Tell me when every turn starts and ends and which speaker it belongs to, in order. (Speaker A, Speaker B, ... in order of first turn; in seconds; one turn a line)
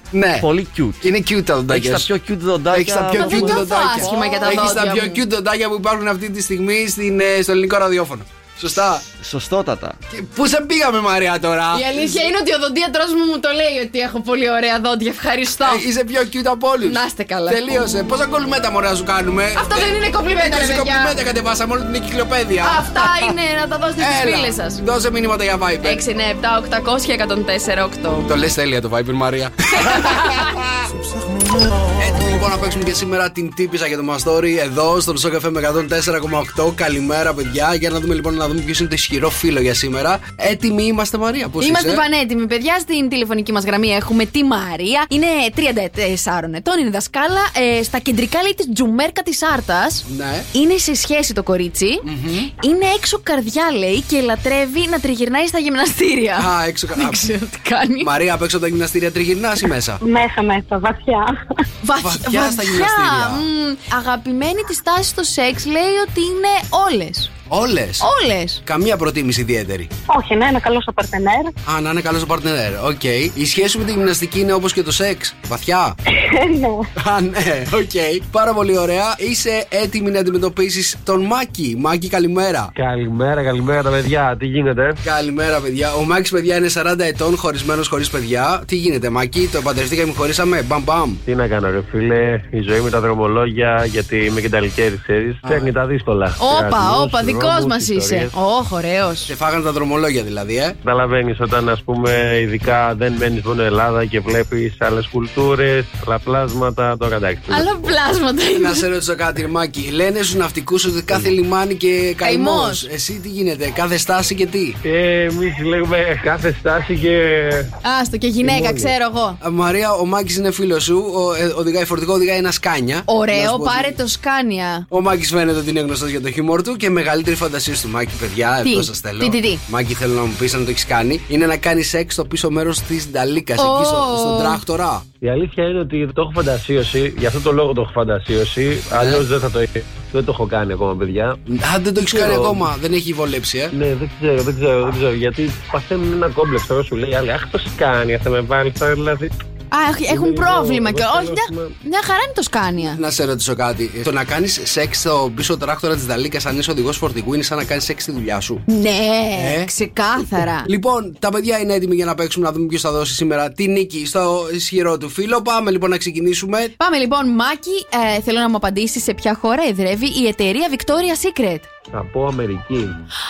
Speaker A: 0.1-0.5
Speaker B: 0.4-1.1
Speaker A: 1.0-2.1
Speaker B: 1.7-4.7
Speaker A: 2.7-9.1
Speaker C: 3.1-5.2
Speaker B: 9.2-10.0
Speaker A: 10.1-12.2
Speaker C: 11.7-15.8
Speaker A: 15.6-23.3
Speaker C: 16.8-17.8
Speaker C: 19.6-21.2
Speaker C: 22.6-24.8
Speaker A: 24.0-26.0
Speaker C: 25.8-28.3
Speaker A: 28.2-30.6
Speaker C: 29.8-30.5
Speaker B: 31.0-31.7
Speaker A: 32.0-42.0
Speaker C: 41.6-52.1
Speaker A: 50.1-50.5
Speaker A: 52.0-52.5
Speaker C: 52.6-58.1
Speaker A: 56.4-57.3
Speaker A: 58.0-60.0
Speaker D: 60.0-61.3
Speaker C: 61.8-67.3
Speaker A: 62.0-63.5
Speaker A: 67.5-68.1
Speaker C: 68.0-68.6
Speaker A: 68.6-69.9
Speaker D: 70.1-71.5
Speaker A: 71.6-76.0
Speaker D: 76.1-76.9
Speaker A: 77.0-82.7
Speaker E: 82.8-85.0
Speaker A: 85.0-91.2
Speaker E: 91.2-98.3
Speaker A: 95.4-95.7
Speaker C: 96.4-99.3
Speaker A: 99.2-100.8
Speaker E: 100.8-107.9
Speaker C: 107.5-108.8
Speaker A: 108.5-114.8
Speaker C: 112.2-112.9
Speaker E: 114.8-117.7
Speaker C: 117.8-119.4
Speaker A: 119.4-124.0
Speaker C: 123.1-124.9
Speaker A: 124.9-135.0
Speaker C: 128.6-129.6
Speaker C: 133.6-134.6
Speaker E: 135.2-141.4
Speaker A: 138.9-139.2
Speaker A: 141.5-143.7
Speaker E: 142.1-142.6
Speaker E: 143.7-149.3
Speaker C: 149.7-153.0
Speaker E: 150.1-151.7
Speaker A: 152.8-158.6
Speaker C: 158.7-160.7
Speaker A: 159.3-159.7
Speaker A: 160.6-166.7
Speaker C: 166.8-171.7
Speaker E: 171.9-173.0